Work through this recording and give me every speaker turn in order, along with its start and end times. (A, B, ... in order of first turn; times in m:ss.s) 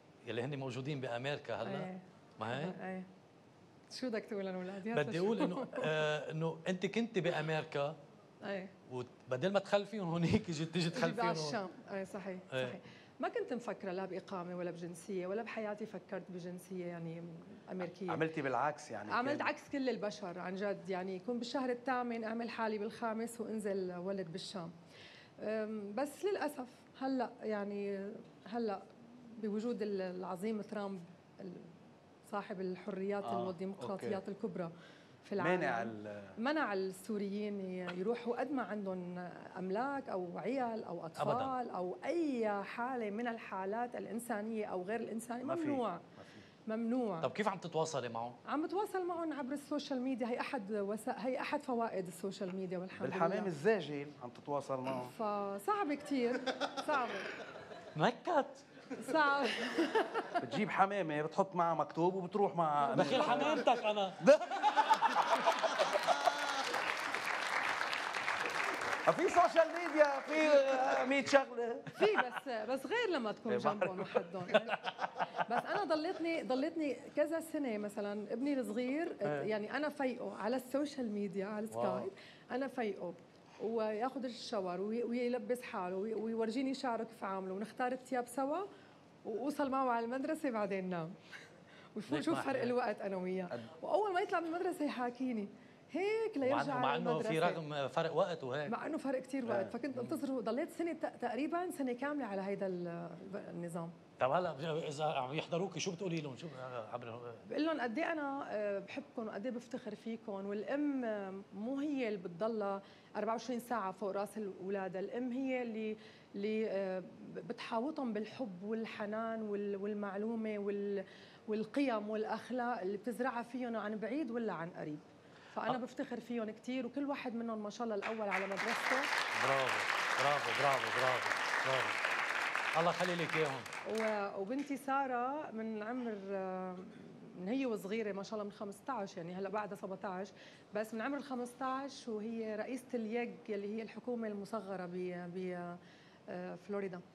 0:00.2-0:02.8 A
0:01.6-0:03.1 B
0:03.9-0:06.1 B
0:04.9-0:08.0 A
0:08.4-0:08.7 B
0:08.9-0:11.6 A
0:10.9-0:18.2 B
0:12.5-0:12.8 A
0:18.1-0:19.5 C
0:19.1-0:24.7 B
0:25.4-0:31.7 B
0:32.3-0:34.7 B
0:33.2-0:34.2 C
0:35.2-0:46.0 B
0:35.4-0:36.4 C
0:41.2-0:41.5 A
0:45.4-0:46.4 C
0:46.7-0:47.3 B
0:47.2-0:48.4 A
0:48.5-0:53.5 B
0:53.0-0:55.1 C
0:54.9-0:57.3 B
0:58.0-0:58.6 A
0:59.0-1:00.5 B
1:00.4-1:03.6 C
1:02.8-1:03.7 B
1:02.9-1:05.0 A
1:04.2-1:05.4 C
1:09.1-1:12.0 C
1:11.9-1:28.7 B
1:13.5-1:14.6 C
1:19.2-1:19.5 A
1:21.7-1:22.1 A
1:29.2-1:31.2 B
1:32.0-1:37.6 B
1:32.1-1:32.8 A
1:36.4-1:38.7 A
1:38.7-1:44.0 B
1:39.5-1:40.2 A
1:44.2-1:47.4 A
1:47.5-2:09.1 B
2:09.4-2:12.0 A
2:12.8-2:13.7 A
2:13.8-2:27.0 B